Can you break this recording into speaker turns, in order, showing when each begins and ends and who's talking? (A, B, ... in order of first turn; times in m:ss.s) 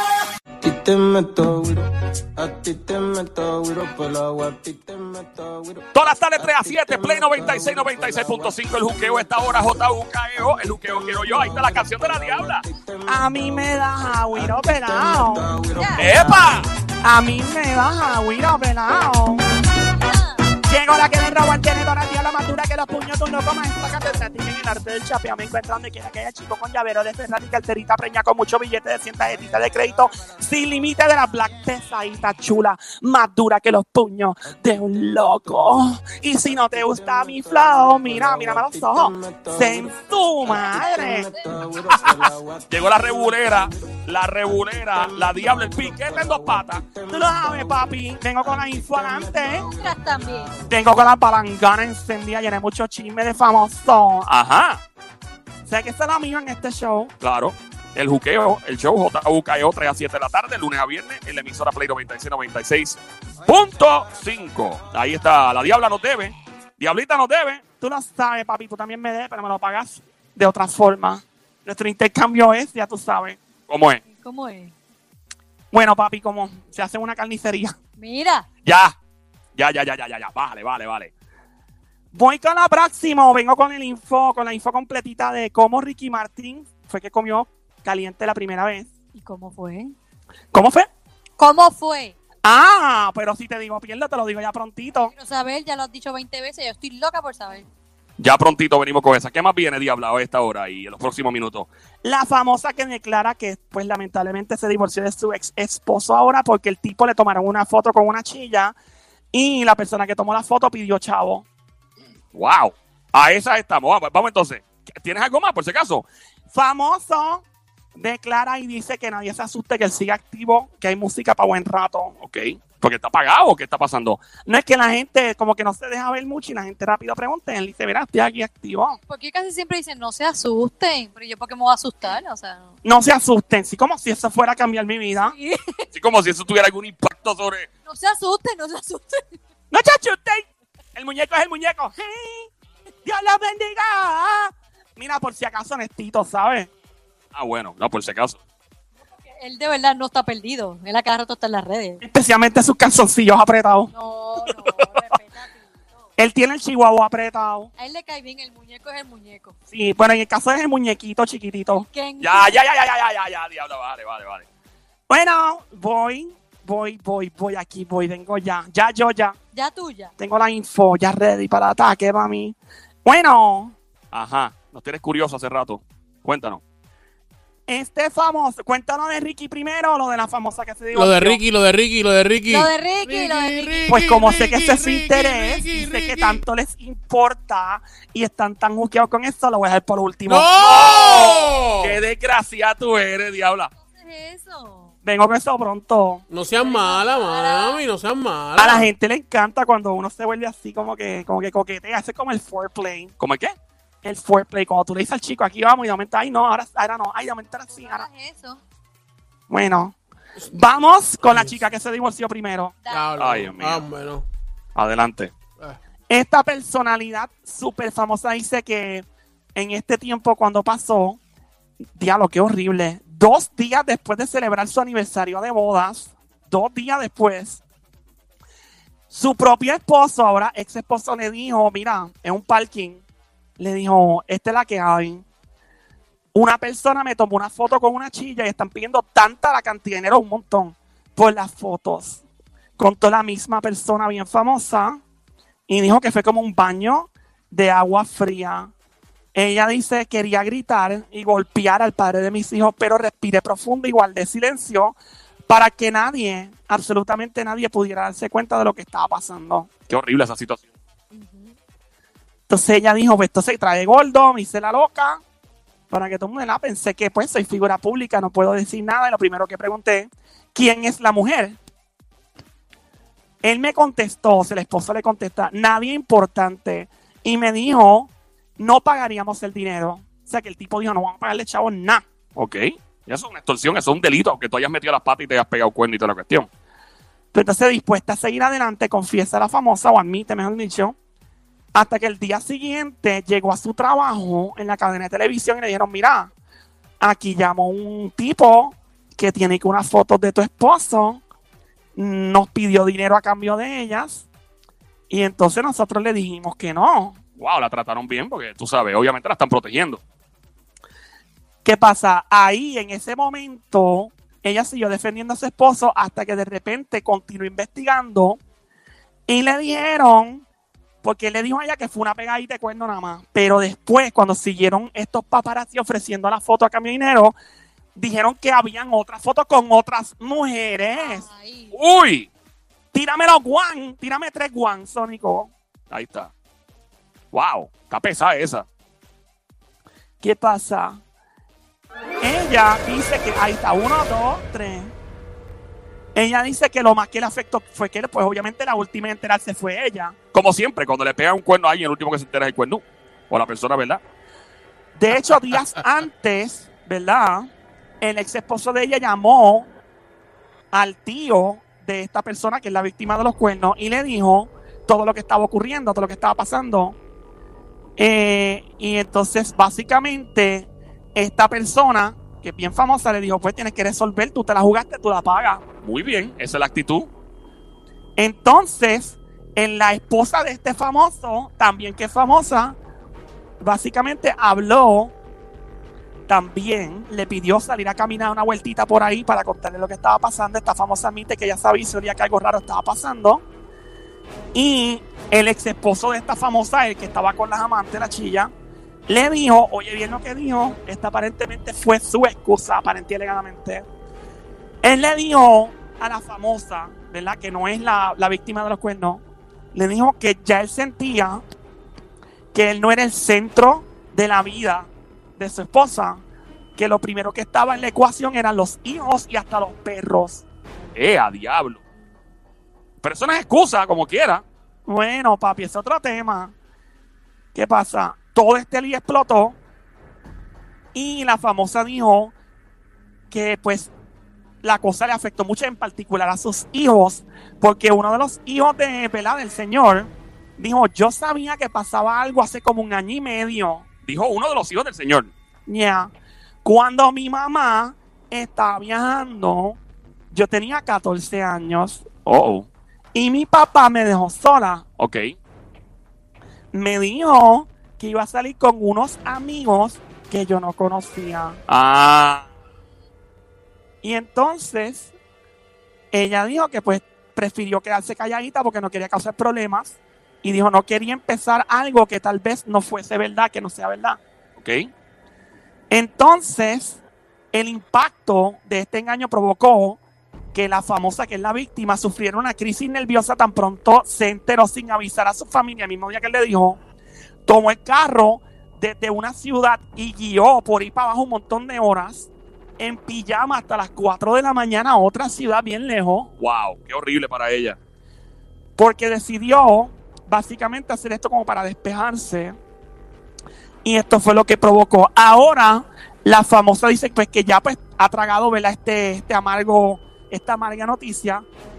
0:00.6-0:09.8 A
0:05.9-0:12.6 B
0:10.4-0:16.7 A
0:13.1-0:15.5 C
0:15.8-0:16.1 D
0:16.0-0:16.7 B
0:17.0-0:19.4 C
0:20.0-0:20.4 D
0:20.6-0:41.3 C
0:36.5-0:50.7 A
0:40.8-0:41.6 D
0:42.7-0:46.8 B
0:47.1-0:49.7 C
0:49.6-0:50.5 D
0:50.7-0:54.3 C
0:54.3-0:54.8 B
0:55.7-0:57.1 C
0:57.2-1:07.7 B
1:07.8-1:13.4 C
1:13.7-1:14.0 B
1:14.0-1:14.7 D
1:15.7-1:17.8 C
1:18.0-1:18.5 D
1:18.6-1:19.0 B
1:19.6-1:21.1 B
1:22.1-1:28.9 C
1:29.1-1:29.9 D
1:30.5-1:30.9 C
1:31.4-1:32.2 D
1:32.4-1:35.1 C
1:35.1-1:37.7 D
1:38.2-1:41.7 B
1:42.0-1:48.7 C
1:49.3-1:51.4 C
1:52.4-1:56.1 B
1:56.5-1:57.4 C
1:58.0-2:02.2 C
2:02.2-2:04.3 B
2:04.4-2:09.0 C
2:09.1-2:12.8 D
2:12.8-2:15.3 C
2:15.2-2:15.9 D
2:15.9-2:17.7 B
2:17.9-2:19.4 D
2:19.7-2:22.5 C
2:23.0-2:26.7 C
2:27.3-2:28.4 B
2:29.2-2:32.0 D
2:32.0-2:33.9 C
2:33.9-2:35.7 D
2:36.2-2:37.7 C
2:37.8-2:39.5 D
2:39.7-2:41.9 C
2:41.8-2:42.6 D
2:42.2-2:44.5 B
2:45.1-2:49.4 C
2:49.5-2:50.1 D
2:50.2-2:53.8 C
2:54.1-2:56.6 B
2:57.7-3:01.4 C
3:00.9-3:06.4 E
3:02.5-3:03.9 D
3:03.9-3:10.6 C
3:10.3-3:12.0 E
3:10.6-3:13.7 B
3:13.8-3:14.9 D
3:15.0-3:16.2 C
3:16.3-3:18.9 E
3:16.6-3:17.8 D
3:18.6-3:23.1 C
3:23.2-3:23.6 B
3:24.0-3:28.1 C
3:27.7-3:28.6 D
3:29.5-3:30.0 C
3:30.5-3:32.7 C
3:31.3-3:31.6 E
3:32.8-3:33.1 D
3:32.9-3:34.2 E
3:33.2-3:33.8 B
3:34.8-3:35.3 B
3:36.1-3:39.0 C
3:39.6-3:41.2 C
3:42.0-3:47.6 C
3:49.1-3:53.0 C
3:53.6-3:55.2 C
3:56.3-4:02.2 C
4:02.8-4:05.0 C
4:05.7-4:08.7 C
4:09.4-4:15.0 C
4:15.5-4:19.7 C
4:19.9-4:20.6 B
4:21.1-4:21.5 D
4:22.5-4:25.2 C
4:25.9-4:31.6 C
4:33.4-4:42.0 C
4:42.4-4:46.5 B
4:47.3-4:51.0 C
4:51.7-4:56.3 C
4:57.0-5:01.2 C
5:02.0-5:04.3 C
5:05.1-5:07.2 C
5:07.4-5:10.0 B
5:11.6-5:18.4 C
5:19.3-5:20.4 C
5:21.0-5:27.4 C
5:28.0-5:31.2 C
5:31.0-5:31.8 D
5:31.7-5:32.3 B
5:32.9-5:35.5 C
5:35.9-5:36.3 B
5:37.3-5:38.7 B
5:40.2-5:41.0 C
5:42.2-5:44.9 C
5:46.2-5:50.2 C
5:50.3-5:54.0 B
5:55.0-5:57.5 C
5:58.0-5:59.7 C
6:00.7-6:07.0 C
6:08.0-6:15.6 C
6:15.8-6:17.1 B
6:18.2-6:22.8 C
6:23.6-6:25.1 C
6:26.3-6:33.4 C
6:34.6-6:38.5 C
6:39.1-6:43.9 C
6:44.8-6:49.2 C
6:49.7-6:51.4 C
6:52.5-6:56.2 C
6:56.8-7:00.4 C
7:01.0-7:01.8 B
7:03.0-7:04.4 B
7:04.9-7:06.5 C
7:07.6-7:09.6 C
7:11.0-7:12.3 C
7:13.3-7:13.9 C
7:14.6-7:23.8 C
7:24.0-7:25.3 B
7:25.7-7:26.1 C
7:26.6-7:29.8 C
7:30.3-7:32.1 C
7:32.2-7:32.7 B
7:33.1-7:34.9 C
7:35.0-7:35.4 B
7:36.7-7:41.6 C
7:41.7-7:42.5 B
7:44.0-7:45.1 C
7:46.1-7:54.2 C
7:54.6-7:54.9 B
7:55.9-7:57.0 C
7:57.5-8:00.0 C
8:00.5-8:06.8 C
8:07.5-8:16.3 C
8:16.4-8:17.8 B
8:18.8-8:22.6 C
8:23.8-8:31.5 C